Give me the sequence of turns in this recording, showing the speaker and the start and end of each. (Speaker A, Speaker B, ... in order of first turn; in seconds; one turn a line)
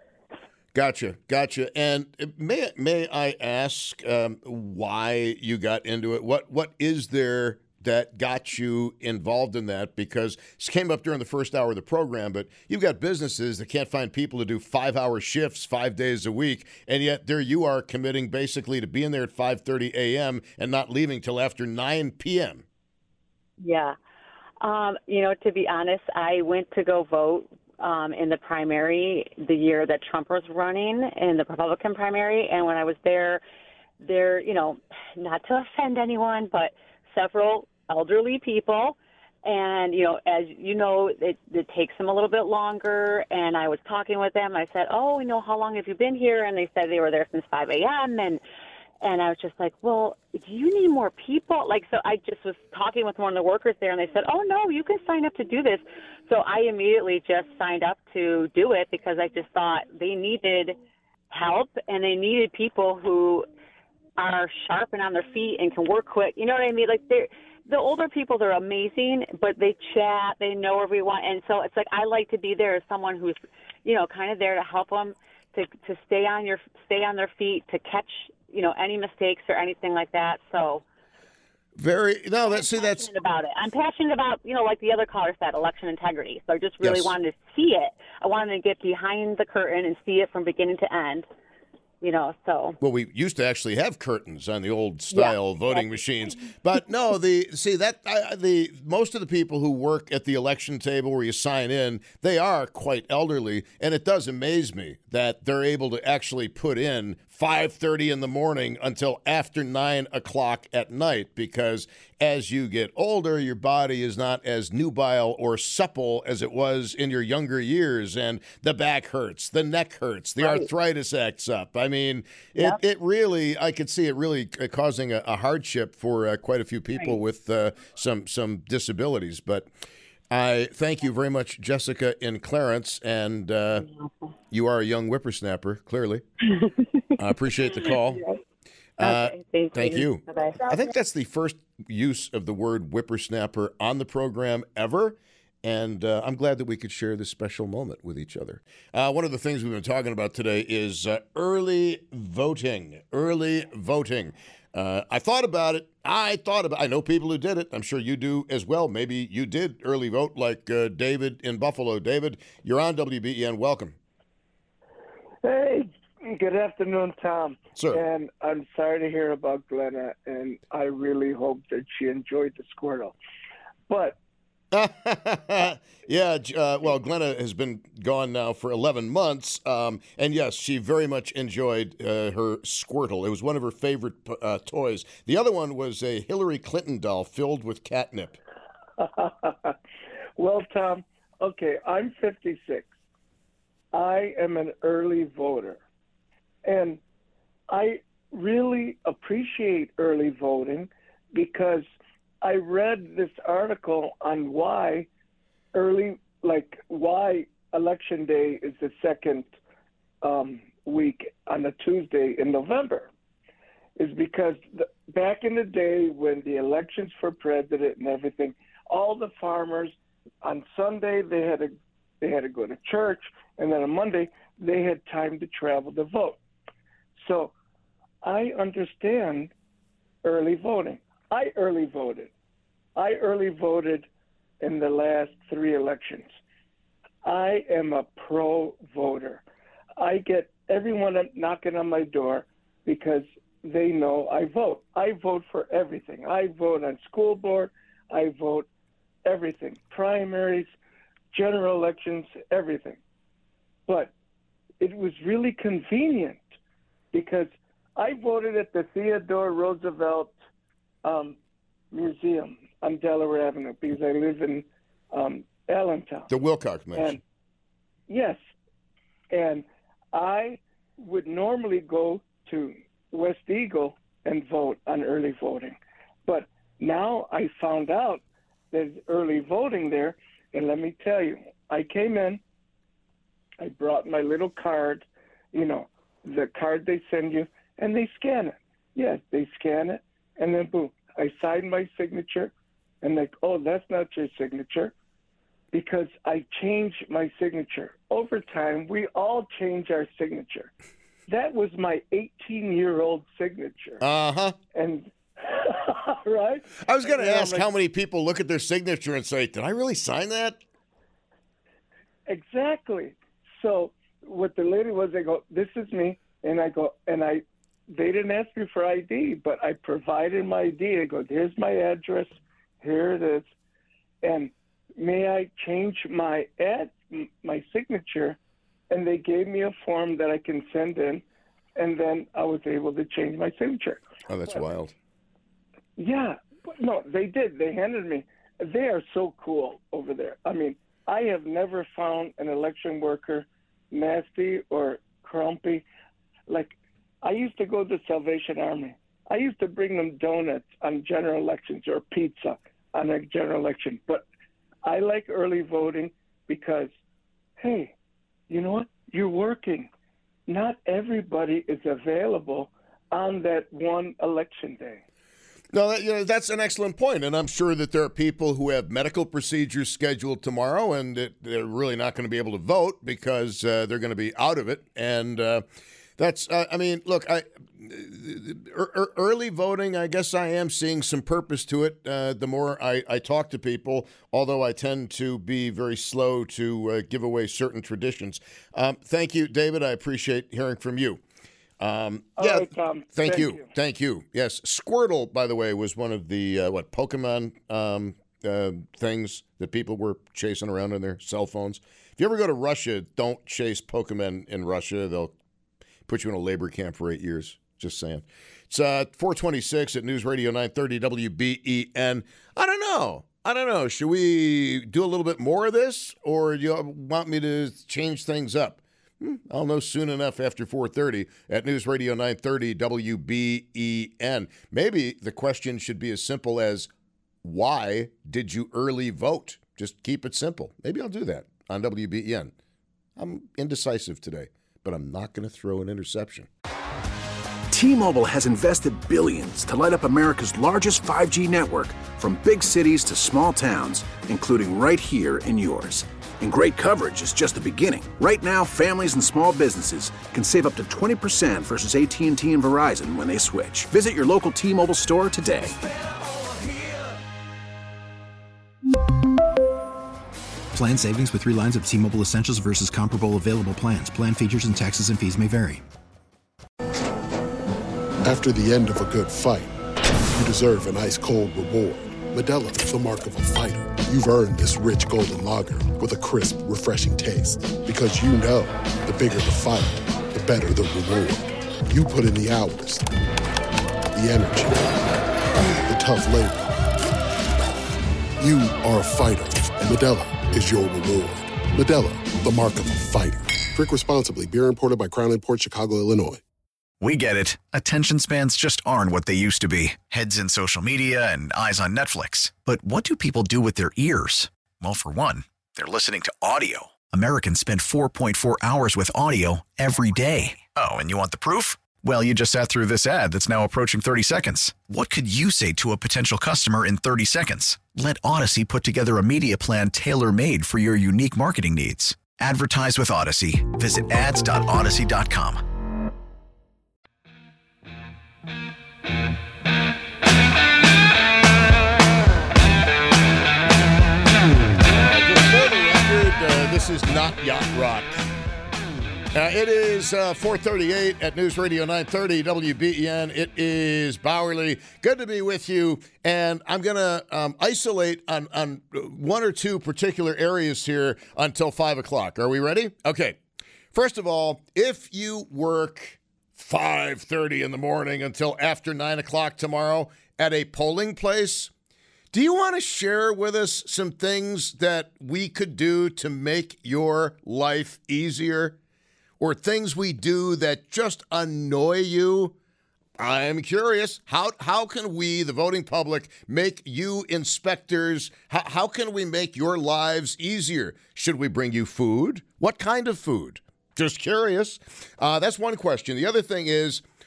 Speaker A: 0.7-22.6
Speaker B: 23.6-24.0
Speaker B: 24.6-33.4
Speaker B: 34.0-48.4
Speaker B: 49.0-60.8
Speaker B: 61.3-63.5
Speaker B: 64.2-80.8
Speaker A: 81.8-83.1
Speaker B: 82.5-91.3
Speaker A: 86.8-87.2
Speaker B: 92.0-92.8
Speaker A: 92.8-129.7
Speaker B: 120.4-120.7
Speaker A: 130.3-133.9
Speaker A: 134.5-136.2
Speaker A: 137.2-138.2
Speaker B: 137.8-138.4
Speaker A: 139.0-164.0
Speaker B: 139.0-140.8
Speaker C: 165.4-173.2
Speaker C: 173.9-174.2
Speaker A: 174.7-188.4
Speaker C: 189.0-189.8
Speaker C: 190.4-192.9
Speaker C: 193.9-195.8
Speaker C: 196.6-197.0
Speaker C: 197.7-201.9
Speaker C: 202.4-205.1
Speaker C: 205.7-209.5
Speaker C: 210.2-213.1
Speaker C: 214.0-226.4
Speaker C: 227.2-227.5
Speaker C: 228.2-229.5
Speaker C: 230.2-232.3
Speaker C: 233.0-234.1
Speaker C: 234.6-236.3
Speaker C: 237.2-239.4
Speaker C: 240.0-248.7
Speaker C: 249.2-250.7
Speaker C: 251.3-253.0
Speaker C: 253.9-254.1
Speaker C: 254.8-256.4
Speaker C: 257.1-260.4
Speaker C: 261.0-261.4
Speaker C: 261.9-266.3
Speaker A: 266.3-267.2
Speaker C: 266.9-267.2
Speaker C: 268.1-268.4
Speaker C: 269.3-282.4
Speaker C: 283.6-294.9
Speaker C: 295.7-300.7
Speaker C: 301.3-304.0
Speaker A: 304.0-304.6
Speaker C: 304.7-307.7
Speaker A: 306.8-310.6
Speaker C: 312.3-323.5
Speaker C: 324.2-328.4
Speaker C: 328.9-331.2
Speaker C: 331.8-334.6
Speaker A: 334.3-334.9
Speaker C: 336.0-345.9
Speaker C: 346.5-354.3
Speaker C: 354.8-356.9
Speaker C: 357.6-357.9
Speaker C: 358.5-359.9
Speaker C: 360.5-365.0
Speaker A: 365.7-375.6
Speaker A: 376.2-391.2
Speaker A: 391.8-405.3
Speaker C: 392.4-393.7
Speaker A: 406.1-426.9
Speaker A: 427.4-432.5
Speaker A: 433.2-436.5
Speaker D: 437.7-455.8
Speaker E: 460.7-465.8
Speaker F: 468.2-469.8
Speaker F: 470.3-483.1
Speaker F: 484.1-484.9
Speaker F: 485.9-486.7
Speaker F: 488.4-496.4
Speaker G: 497.0-525.6
Speaker A: 534.9-538.1
Speaker A: 539.3-553.4
Speaker A: 553.9-561.7
Speaker A: 562.3-568.8
Speaker A: 569.4-572.5
Speaker A: 573.2-587.0